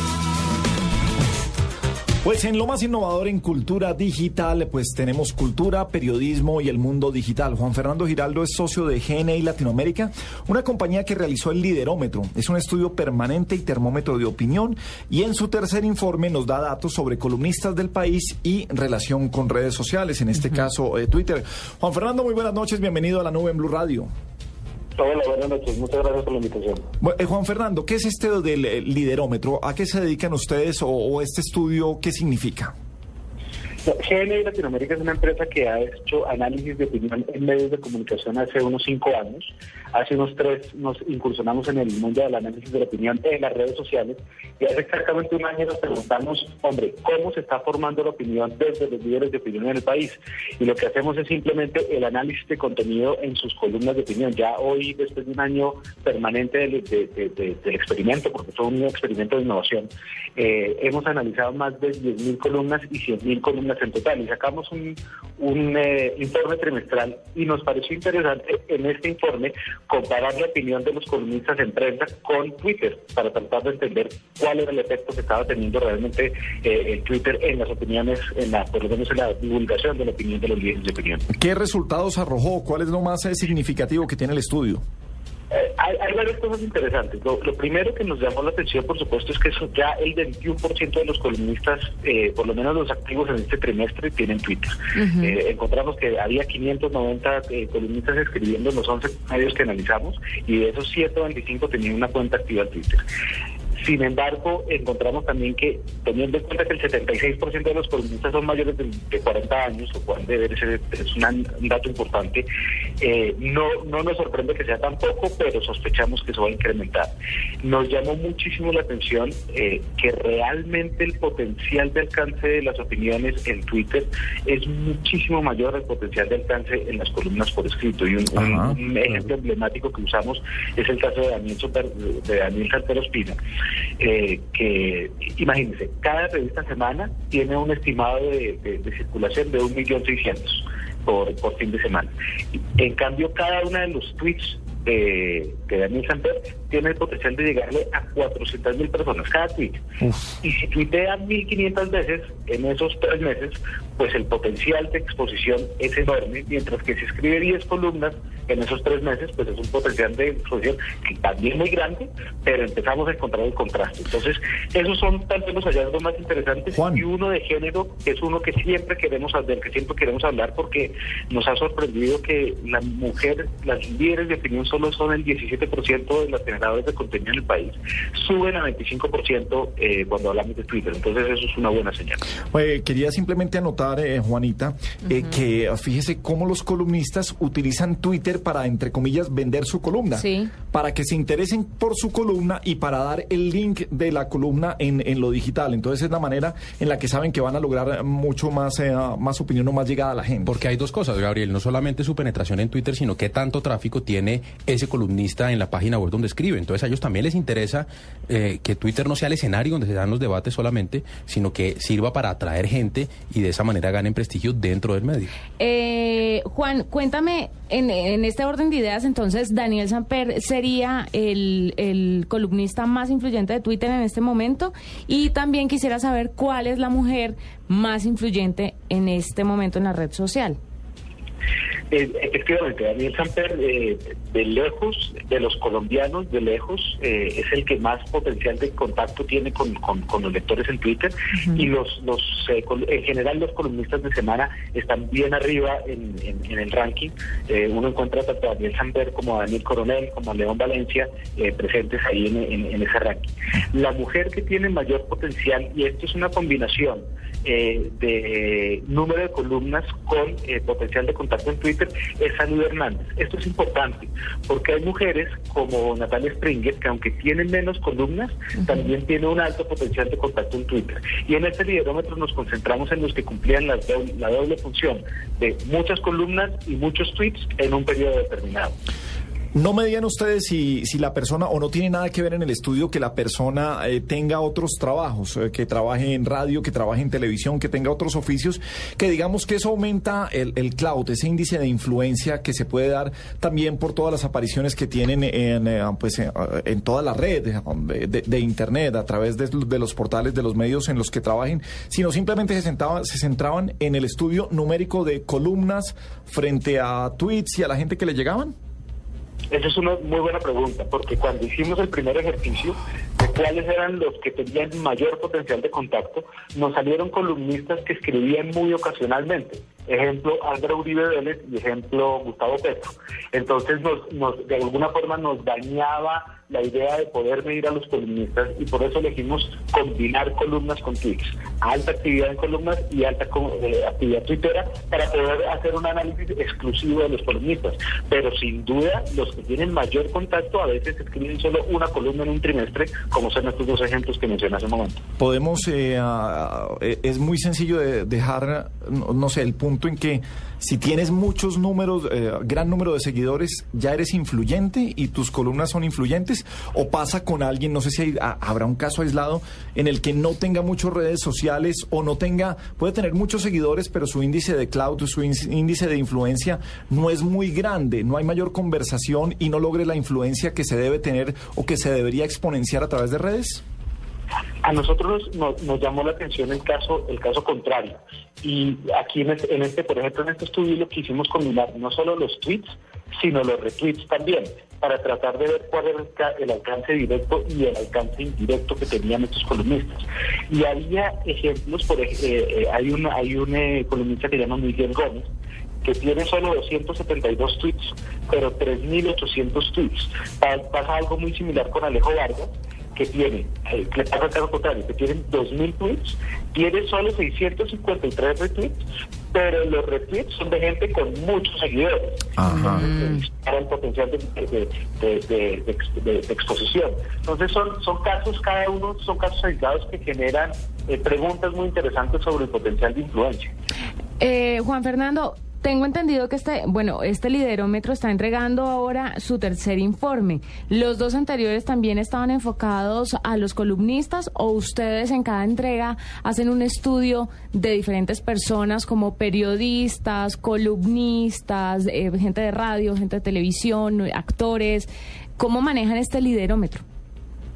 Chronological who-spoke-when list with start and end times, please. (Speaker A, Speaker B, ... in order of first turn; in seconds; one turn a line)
Speaker A: 2.2-24.1
Speaker B: 25.0-26.9
Speaker A: 27.0-32.7
Speaker B: 33.9-81.2
Speaker A: 81.3-84.8
Speaker B: 85.5-103.0
Speaker B: 103.8-112.5
Speaker B: 113.0-133.4
Speaker A: 128.3-128.8
Speaker B: 134.0-149.8
Speaker B: 150.4-182.2
Speaker A: 166.7-167.0
Speaker A: 182.5-200.5
Speaker C: 190.2-190.5
Speaker D: 200.5-215.3
Speaker C: 215.6-230.6
Speaker B: 231.9-278.8
Speaker A: 279.5-308.5
Speaker B: 309.5-345.0
Speaker A: 345.2-373.6
Speaker B: 374.6-395.3
Speaker B: 395.8-423.5
Speaker A: 412.4-412.9
Speaker C: 424.2-446.8